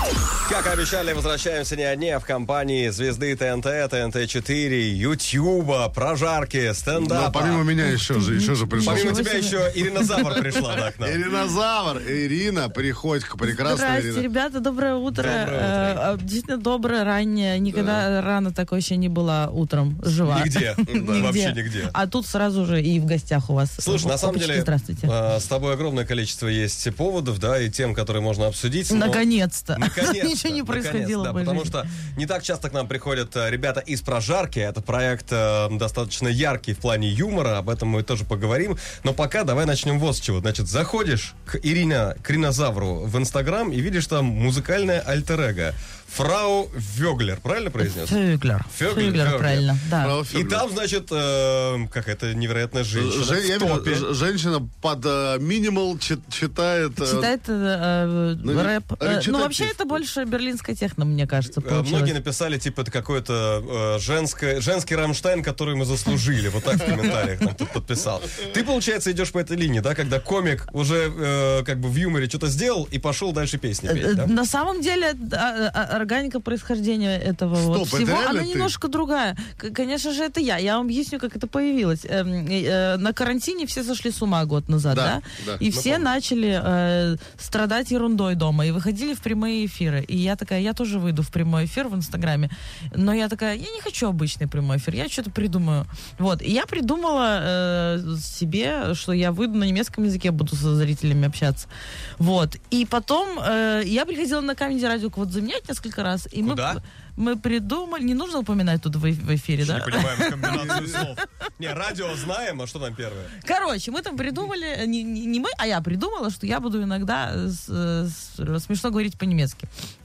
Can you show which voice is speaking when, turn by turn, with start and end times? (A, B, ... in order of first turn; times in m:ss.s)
0:00.4-0:07.6 A
0:07.0-0:09.2 B
0:07.8-0:10.4 C
0:08.8-0:11.2 A
0:10.2-0:14.2 B
0:13.4-0:25.1 C
0:15.1-0:16.0 A
0:17.7-0:18.0 B
0:20.2-0:21.9 A
0:20.9-0:21.4 B
0:23.8-0:29.2 A
0:28.9-0:31.7 C
0:29.7-0:48.2 A
0:47.8-0:50.1 C
0:48.7-0:49.7 A
0:50.0-0:50.6 B
0:50.3-0:54.1 A
0:52.9-0:57.3 B
0:57.0-1:02.2 C
0:58.4-1:00.0 B
1:01.4-1:14.3 A
1:13.8-1:51.1 C
1:17.6-1:18.7 B
1:24.9-1:25.6 B
1:25.7-1:26.1 A
1:46.4-1:46.8 A
1:49.6-1:53.3 A
1:50.5-1:51.0 B
1:53.4-1:59.7 C